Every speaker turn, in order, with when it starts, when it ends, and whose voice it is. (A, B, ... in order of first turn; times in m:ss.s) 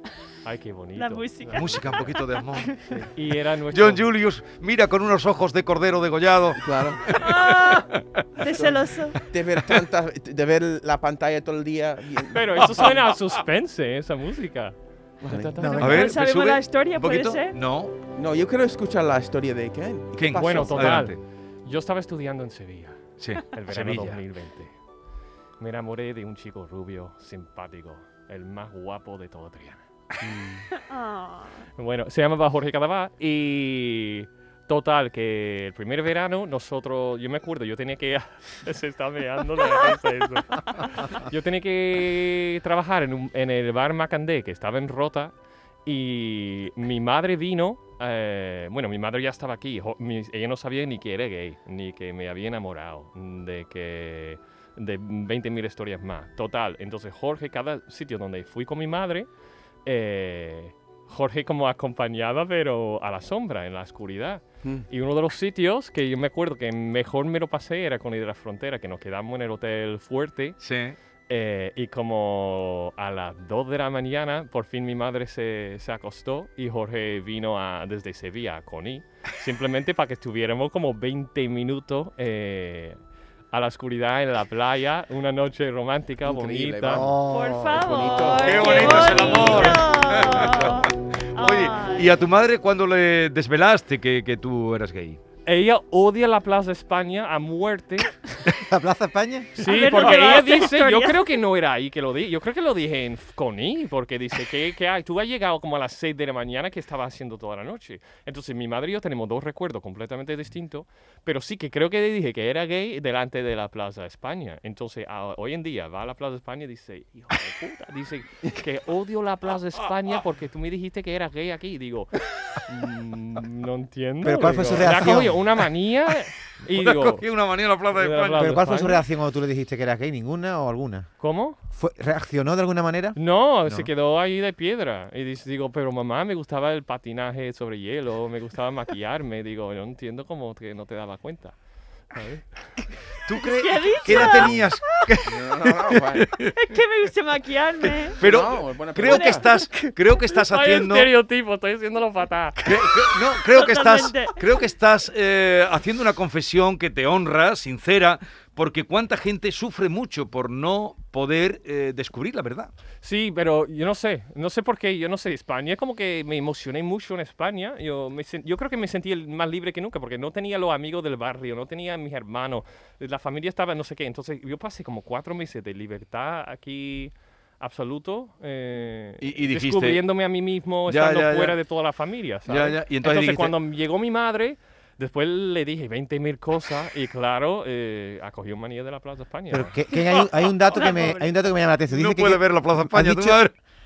0:00.4-0:01.8 A
0:01.0-0:03.0 B
0:01.5-0:03.0 C
0:03.1-0:04.1 A
0:03.7-0:08.2 C
0:06.6-0:07.2 D
0:07.1-0:09.2 B
0:08.5-0:12.9 D
0:12.3-0:16.1 A
0:12.6-0:13.1 C
0:15.2-0:15.7 D
0:15.6-0:16.0 E
0:15.8-0:17.9 C
0:15.8-0:17.6 B
0:18.2-0:21.1 D
0:20.1-0:21.2 C
0:20.3-0:24.7 A
0:23.2-0:24.2 C
0:25.6-0:29.8 A
0:30.2-0:30.6 D
0:30.7-0:31.6 B
0:31.8-0:45.3 A
0:45.8-0:59.3 A
0:59.8-1:10.6 A
1:10.6-1:11.0 C
1:11.3-1:23.0 A
1:23.5-1:27.1 A
1:26.2-1:29.7 D
1:26.9-1:27.9 E
1:27.3-1:32.1 B
1:28.4-1:35.2 C
1:29.3-1:29.7 A
1:35.5-1:38.1 A
1:38.5-1:39.6 E
1:39.6-2:07.2 A
1:39.6-1:41.4 B
2:04.2-2:05.4 E
2:06.7-2:08.6 C
2:07.9-2:09.0 A
2:08.4-2:11.1 E
2:11.2-2:11.6 A
2:11.7-2:13.9 E
2:13.2-2:21.6 A
2:22.1-2:22.4 A
2:23.2-2:26.5 C
2:23.4-2:25.2 B
2:25.2-2:26.4 D
2:26.5-2:28.2 B
2:28.2-2:31.1 C
2:28.2-2:29.5 D
2:29.1-2:29.9 B
2:30.4-2:32.8 A
2:32.6-2:42.7 C
2:33.4-2:34.5 B
2:43.0-3:09.7 A
2:59.2-3:00.0 C
3:00.9-3:01.6 C
3:02.5-3:03.6 C
3:09.5-3:13.4 E
3:10.7-3:11.3 B
3:11.9-3:13.5 C